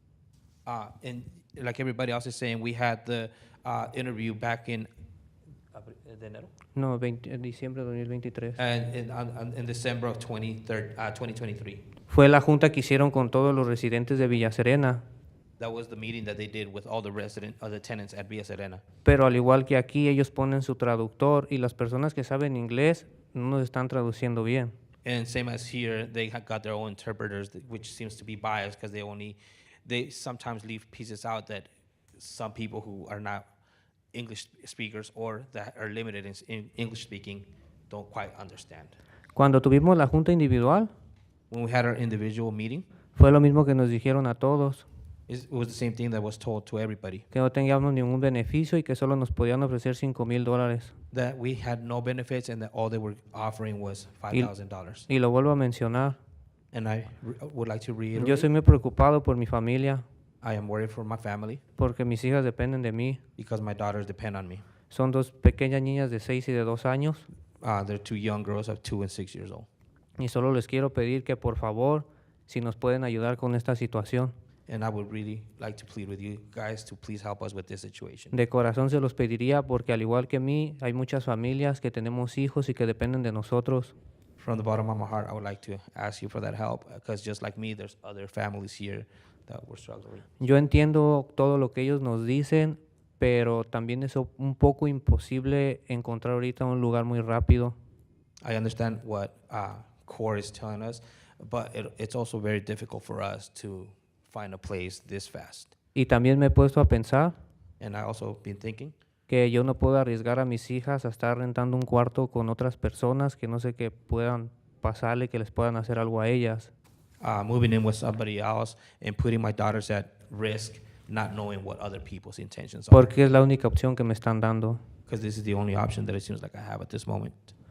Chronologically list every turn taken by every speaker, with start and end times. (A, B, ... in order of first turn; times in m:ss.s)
0:00.7-0:04.9 A
0:05.7-0:06.5 A
0:06.8-0:08.6 B
0:08.6-0:11.8 A
0:12.1-0:15.0 B
0:15.6-0:18.8 A
0:19.0-0:24.7 B
0:25.0-0:33.5 A
0:34.1-0:39.0 A
0:39.4-0:40.9 B
0:41.5-0:42.9 A
0:43.2-0:44.8 B
0:45.3-0:47.2 A
0:47.3-0:50.9 B
0:51.1-0:55.1 A
0:55.1-0:56.2 B
0:56.7-0:58.5 A
0:58.2-1:00.0 B
1:00.4-1:01.6 A
1:01.8-1:03.2 B
1:03.4-1:04.6 A
1:04.9-1:07.3 B
1:07.6-1:09.7 A
1:10.2-1:14.3 B
1:14.7-1:18.4 A
1:18.3-1:23.9 B
1:24.4-1:30.3 A
1:30.4-1:37.8 B
1:38.4-1:45.7 A
1:46.0-1:47.4 B
1:47.8-1:48.9 A
1:49.3-1:56.7 B
1:57.2-2:03.1 A
2:02.9-2:04.8 B
2:05.1-2:07.5 A